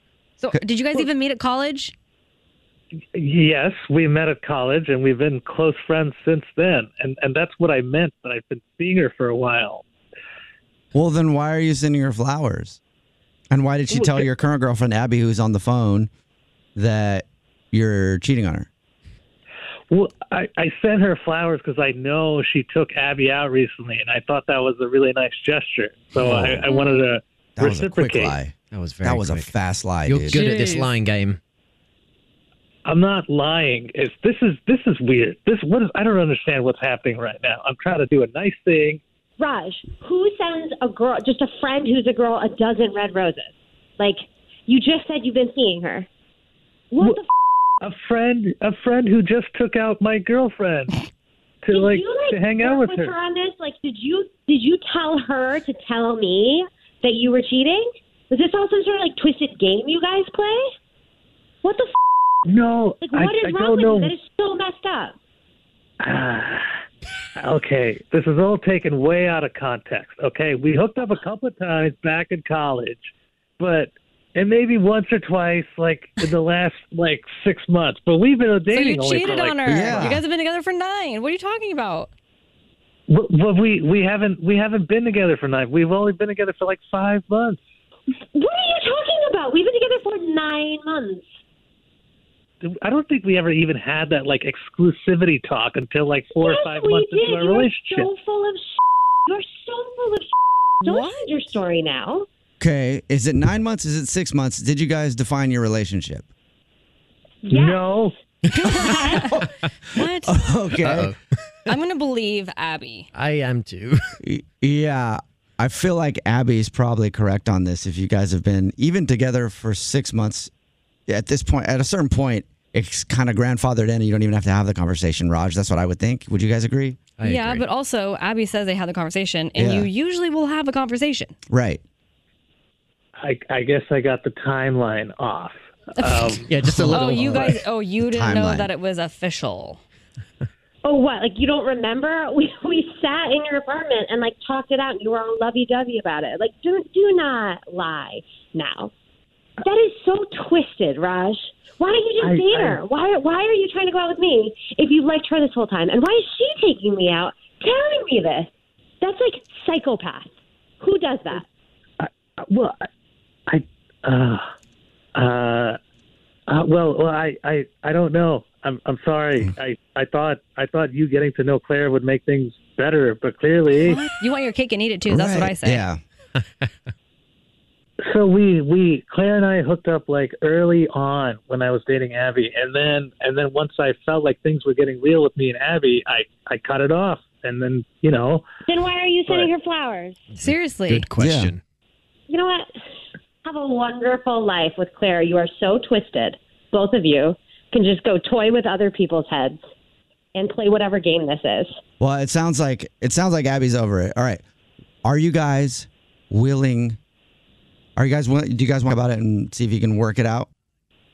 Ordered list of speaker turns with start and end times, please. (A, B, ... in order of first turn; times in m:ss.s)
0:00.4-0:01.9 A
0:03.1-0:09.8 B
0:10.9-0:12.8 C
0:13.5-0:16.1 C
0:13.9-0:14.2 B
0:16.8-0:18.7 C
0:19.9-0:28.4 B
0:26.2-0:26.6 C
0:26.7-0:27.0 A
0:27.6-0:30.4 C
0:28.7-0:29.5 D
0:30.0-0:31.4 D
0:30.3-0:30.9 A
0:32.8-0:39.0 B
0:39.4-0:46.1 E
0:46.9-0:47.3 E
0:47.8-0:51.0 B
0:51.6-0:53.1 B
0:51.7-1:00.7 E
1:01.6-1:01.9 E
1:02.4-1:04.1 B
1:03.0-1:05.1 E
1:06.0-1:06.7 B
1:07.4-1:19.8 B
1:18.7-1:22.1 A
1:19.6-1:20.2 C
1:23.1-1:27.6 B
1:28.3-1:31.2 E
1:32.6-1:38.1 B
1:36.3-1:38.8 E
1:39.3-1:40.3 E
1:40.8-1:42.3 E
1:40.8-1:41.3 A
1:42.6-1:46.2 C
1:47.4-1:48.0 E
1:47.5-1:48.1 B
1:48.5-1:49.4 A
1:48.8-1:49.3 E
1:49.9-1:50.4 A
1:50.2-1:51.1 C
1:50.8-1:51.2 D
1:51.7-1:53.1 A
1:53.1-1:54.1 D
1:54.2-2:00.5 C
2:01.1-2:07.0 C
2:07.2-2:07.6 D
2:07.2-2:11.3 A
2:09.6-2:09.9 C
2:11.5-2:11.8 C
2:13.2-2:16.5 B
2:16.0-2:19.8 A
2:16.5-2:17.6 D
2:16.8-2:18.7 C
2:20.8-2:28.9 E
2:29.6-2:38.5 E
2:32.2-2:32.8 B
2:39.0-2:41.4 E
2:42.0-2:42.9 B
2:43.5-2:44.5 B
2:45.1-2:45.8 B
2:46.5-2:54.0 B
2:53.8-2:55.8 A
2:55.1-2:56.0 C
2:58.0-3:08.4 B
3:08.7-3:10.2 E
3:10.3-3:11.6 D
3:10.4-3:11.1 A
3:11.2-3:11.5 C
3:12.3-3:12.7 E
3:13.4-3:19.6 E
3:20.3-3:21.8 E
3:22.0-3:24.4 C
3:25.0-3:27.0 C
3:28.0-3:30.5 C